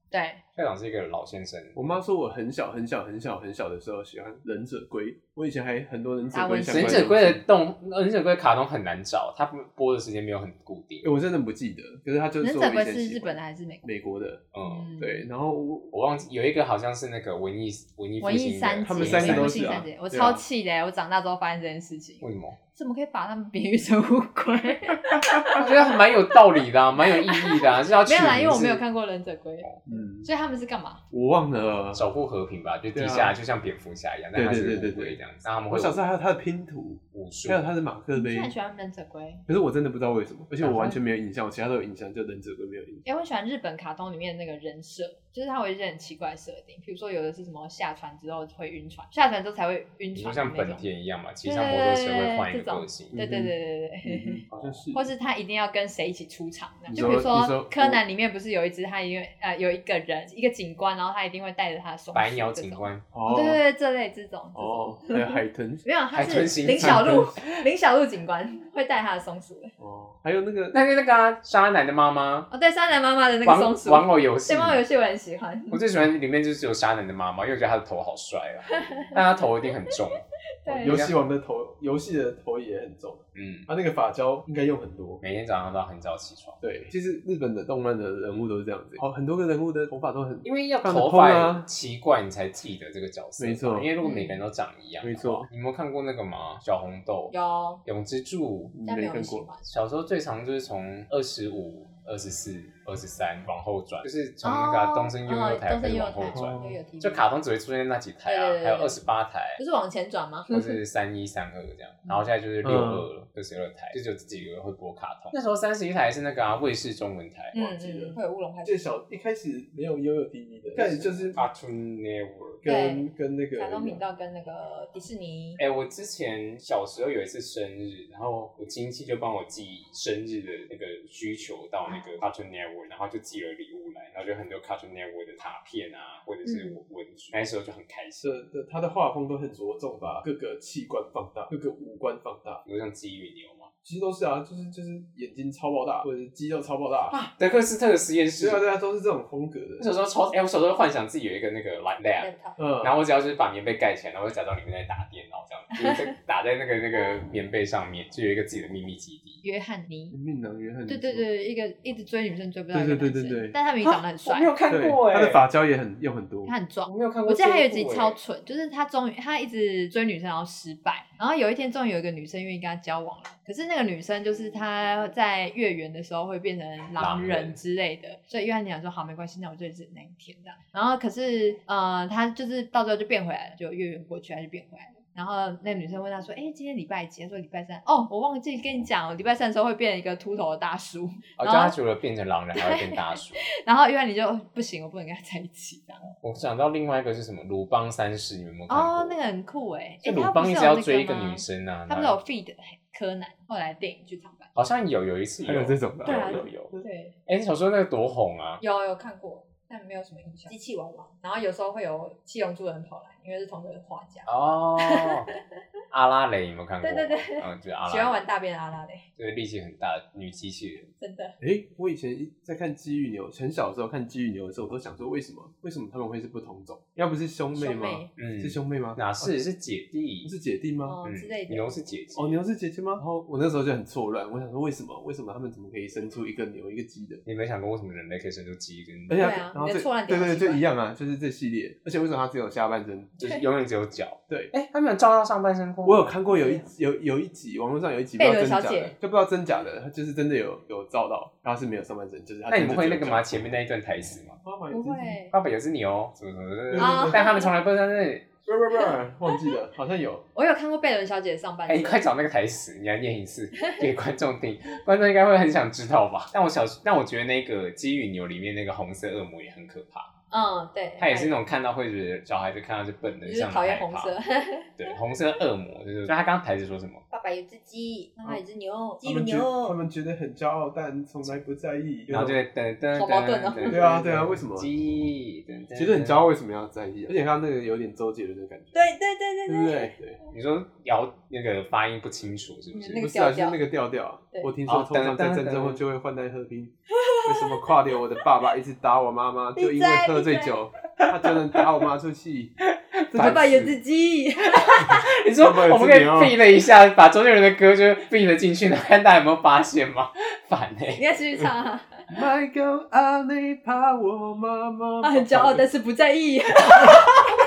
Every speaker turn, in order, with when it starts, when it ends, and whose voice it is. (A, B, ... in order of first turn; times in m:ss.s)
0:00.1-0:00.4 A
0:00.6-0:01.8 B
0:01.7-0:07.4 C
0:06.3-0:07.1 A
0:06.7-0:11.1 B
0:11.0-0:14.4 C
0:12.4-0:13.9 A
0:14.5-0:15.0 B
0:14.6-0:15.3 A
0:15.0-0:15.9 C
0:15.9-0:19.8 B
0:18.2-0:25.9 A
0:18.8-0:20.4 C
0:22.2-0:22.6 B
0:25.5-0:28.8 B
0:27.0-0:31.0 A
0:29.8-0:30.3 C
0:31.1-0:32.0 C
0:31.9-0:36.0 B
0:32.9-0:33.4 C
0:34.3-0:35.2 C
0:35.7-0:38.5 C
0:37.1-0:37.6 B
0:38.1-0:39.4 A
0:39.5-0:43.0 C
0:40.6-0:41.0 B
0:43.0-0:50.8 A
0:50.1-0:53.2 B
0:51.4-1:09.7 A
0:53.1-0:53.5 C
0:54.0-0:55.1 C
0:56.9-0:58.0 C
1:02.1-1:03.1 B
1:03.1-1:03.6 C
1:04.5-1:05.8 C
1:06.1-1:07.4 B
1:06.7-1:07.3 C
1:09.8-1:10.8 C
1:10.7-1:12.5 B
1:12.5-1:15.8 A
1:13.4-1:14.8 B
1:15.7-1:21.2 B
1:18.7-1:19.2 A
1:20.6-1:21.0 A
1:20.8-1:25.2 C
1:23.3-1:23.7 B
1:25.2-1:26.6 B
1:26.6-1:31.7 C
1:30.4-1:37.3 B
1:33.4-1:33.9 C
1:34.0-1:34.4 A
1:35.0-1:35.5 C
1:37.3-1:37.8 A
1:37.8-1:38.7 B
1:38.7-1:39.5 C
1:38.8-1:39.6 A
1:39.6-1:49.6 B
1:44.4-1:47.2 A
1:46.3-1:46.8 C
1:48.2-1:49.0 A
1:49.6-1:50.8 A
1:50.5-1:57.6 B
1:52.6-1:53.1 C
1:57.5-1:58.8 A
1:57.6-2:01.4 C
2:00.8-2:02.6 B
2:02.6-2:04.0 C
2:02.6-2:05.6 A
2:05.6-2:18.3 B
2:16.4-2:16.8 A
2:18.2-2:22.6 C
2:22.6-2:23.7 B
2:23.8-2:27.2 C
2:27.1-2:28.6 B
2:28.4-2:29.9 C
2:29.8-2:39.4 B
2:32.2-2:32.6 A
2:32.6-2:33.0 C
2:39.4-2:40.2 A
2:40.1-2:41.2 C
2:40.9-2:44.5 A
2:42.7-2:43.6 C
2:43.8-2:45.4 B
2:44.7-2:46.5 C
2:46.4-3:11.8 A
2:46.9-2:48.2 B
2:57.0-2:57.6 B
3:11.4-3:13.4 B
3:12.5-3:16.1 A
3:16.2-3:19.3 B
3:18.7-3:24.5 A
3:20.0-3:22.2 B
3:24.5-3:26.7 B
3:25.4-3:26.8 C
3:26.0-3:27.1 A
3:27.3-3:28.6 B
3:28.6-3:35.4 A
3:34.3-3:35.3 B
3:35.9-3:38.2 B
3:36.8-3:39.0 A
3:39.2-3:40.9 B
3:41.0-3:41.4 A
3:41.4-3:49.4 C
3:47.5-3:48.1 A
3:48.2-3:50.3 B
3:50.2-3:51.0 C
3:50.8-3:51.6 A
3:51.0-3:52.4 B
3:52.1-3:57.2 C
3:57.2-3:59.4 B
3:59.1-4:03.1 C
3:59.1-4:00.6 A
4:03.2-4:06.1 B
4:05.8-4:13.4 C
4:06.3-4:06.6 A
4:08.2-4:08.9 A
4:12.5-4:14.4 B
4:14.4-4:15.2 C
4:14.7-4:15.3 A
4:15.3-4:18.3 B
4:16.7-4:17.3 C
4:16.8-4:17.5 A
4:18.4-4:20.2 C
4:20.3-4:22.0 A
4:21.7-4:30.1 B
4:30.3-4:31.4 A
4:31.0-4:34.1 B
4:33.1-4:34.9 A
4:34.8-4:37.0 B
4:37.1-4:39.8 A
4:39.0-4:42.4 C
4:42.1-4:46.2 B
4:42.9-4:43.9 A
4:43.7-4:44.7 C
4:45.7-4:48.8 C
4:48.7-4:49.9 A
4:49.5-4:50.2 C
4:50.3-4:53.1 B
4:52.7-4:53.6 A
4:53.0-5:02.6 C
4:54.6-4:55.8 B
4:56.9-4:57.7 A
4:59.6-5:00.6 A
5:01.0-5:01.6 B
5:02.7-5:03.7 B
5:03.1-5:03.7 C
5:03.1-5:05.0 A
5:04.5-5:11.0 B
5:05.0-5:06.4 C
5:10.9-5:12.0 A
5:12.1-5:15.7 C
5:15.0-5:17.3 A